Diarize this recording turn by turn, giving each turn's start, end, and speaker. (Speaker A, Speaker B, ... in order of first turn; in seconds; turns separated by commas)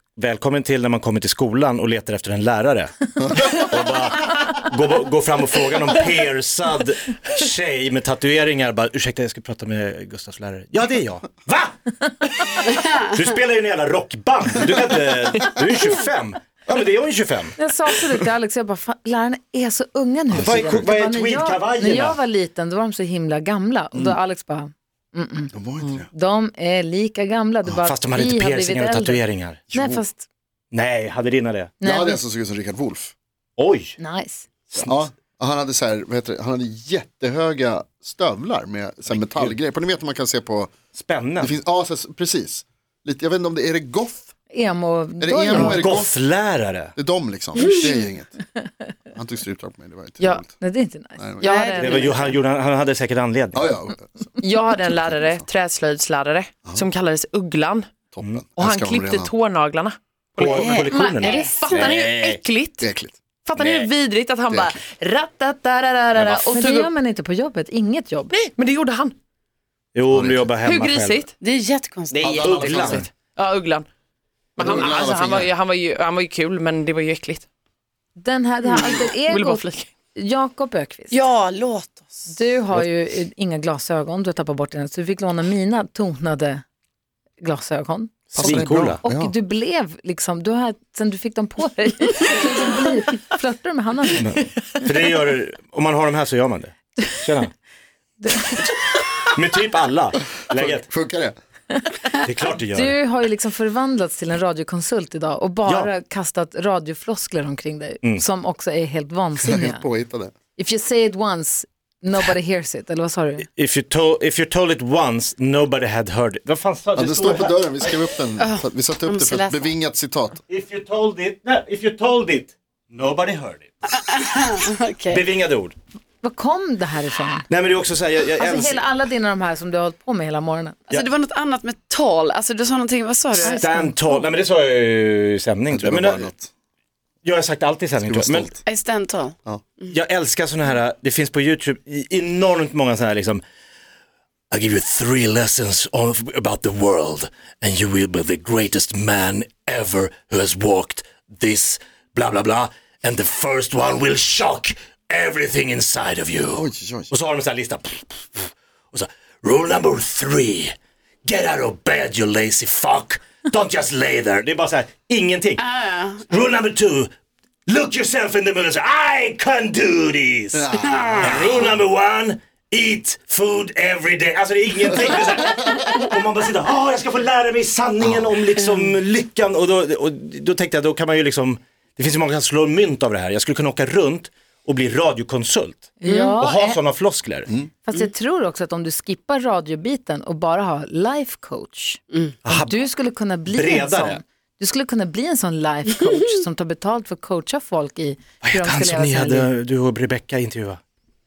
Speaker A: 0.2-17.6, Speaker B: 3.2-3.5, Speaker C: 12.7-13.0, Speaker D: 17.6-25.5, Speaker A: 20.3-22.2, Speaker B: 20.4-20.8, Speaker B: 25.5-26.1, Speaker D: 26.1-29.2, Speaker A: 27.9-29.7, Speaker B: 29.7-30.0, Speaker D: 29.7-30.3, Speaker A: 30.7-31.8, Speaker D: 31.8-32.2, Speaker B: 31.8-33.1, Speaker A: 33.6-34.0, Speaker D: 34.0-34.5, Speaker A: 34.7-35.1, Speaker B: 34.9-40.7, Speaker A: 39.1-39.5, Speaker A: 40.9-41.5, Speaker B: 41.4-44.3, Speaker D: 44.5-46.0, Speaker B: 45.2-46.1, Speaker A: 45.5-46.9, Speaker B: 47.0-48.4, Speaker C: 47.6-47.9, Speaker B: 49.1-50.5, Speaker D: 50.6-51.2, Speaker B: 51.2-51.5, Speaker C: 51.4-52.2, Speaker E: 51.4-52.3, Speaker A: 51.7-53.7, Speaker B: 53.5-54.3, Speaker E: 54.4-57.9, Speaker B: 55.0-55.4, Speaker B: 58.1-59.3, Speaker E: 58.6-60.6, Speaker A: 60.4-62.4, Speaker C: 60.4-61.9, Speaker D: 60.9-61.7, Speaker E: 61.2-62.9, Speaker B: 62.8-63.1, Speaker E: 63.5-66.9, Speaker A: 63.6-63.9, Speaker B: 64.5-64.8, Speaker D: 66.3-68.3, Speaker E: 68.3-69.1, Speaker A: 70.0-71.3, Speaker B: 70.1-70.5, Speaker E: 70.6-71.3, Speaker C: 71.4-72.4, Speaker E: 72.1-73.9, Speaker B: 72.2-73.1, Speaker A: 72.3-73.1, Speaker E: 74.6-77.5, Speaker B: 74.6-75.5, Speaker D: 78.2-81.2, Speaker C: 78.7-79.0, Speaker E: 79.0-79.9, Speaker C: 81.1-82.3, Speaker D: 82.3-86.6, Speaker D: 87.4-94.3, Speaker A: 88.3-89.0, Speaker B: 88.4-89.3, Speaker A: 94.2-97.5, Speaker D: 98.2-98.6, Speaker A: 99.2-100.9, Speaker B: 100.5-101.3, Speaker D: 101.7-102.0, Speaker A: 102.2-103.0, Speaker D: 102.6-109.8, Speaker B: 109.4-110.3, Speaker D: 110.6-113.5, Speaker A: 113.6-118.0, Speaker B: 117.0-120.4, Speaker C: 118.4-119.7, Speaker A: 120.5-124.0, Speaker C: 124.0-125.2, Speaker A: 125.1-125.8, Speaker D: 126.2-127.5, Speaker A: 127.5-128.8, Speaker D: 128.4-130.8, Speaker C: 130.9-133.6, Speaker D: 133.4-134.2, Speaker A: 133.6-136.3, Speaker B: 135.7-136.5, Speaker A: 137.2-138.6, Speaker B: 138.0-138.6, Speaker C: 138.7-139.9, Speaker A: 139.9-143.4, Speaker A: 144.5-160.7, Speaker B: 156.5-157.1, Speaker A: 161.2-165.7, Speaker C: 165.6-166.3, Speaker A: 166.2-167.1, Speaker A: 167.7-187.5, Speaker B: 170.5-171.5, Speaker C: 170.9-171.3, Speaker B: 178.0-178.4, Speaker D: 186.0-186.8, Speaker C: 186.1-186.3, Speaker D: 187.9-192.0, Speaker A: 192.4-192.8, Speaker D: 192.5-199.5, Speaker A: 193.5-194.2, Speaker A: 198.4-200.8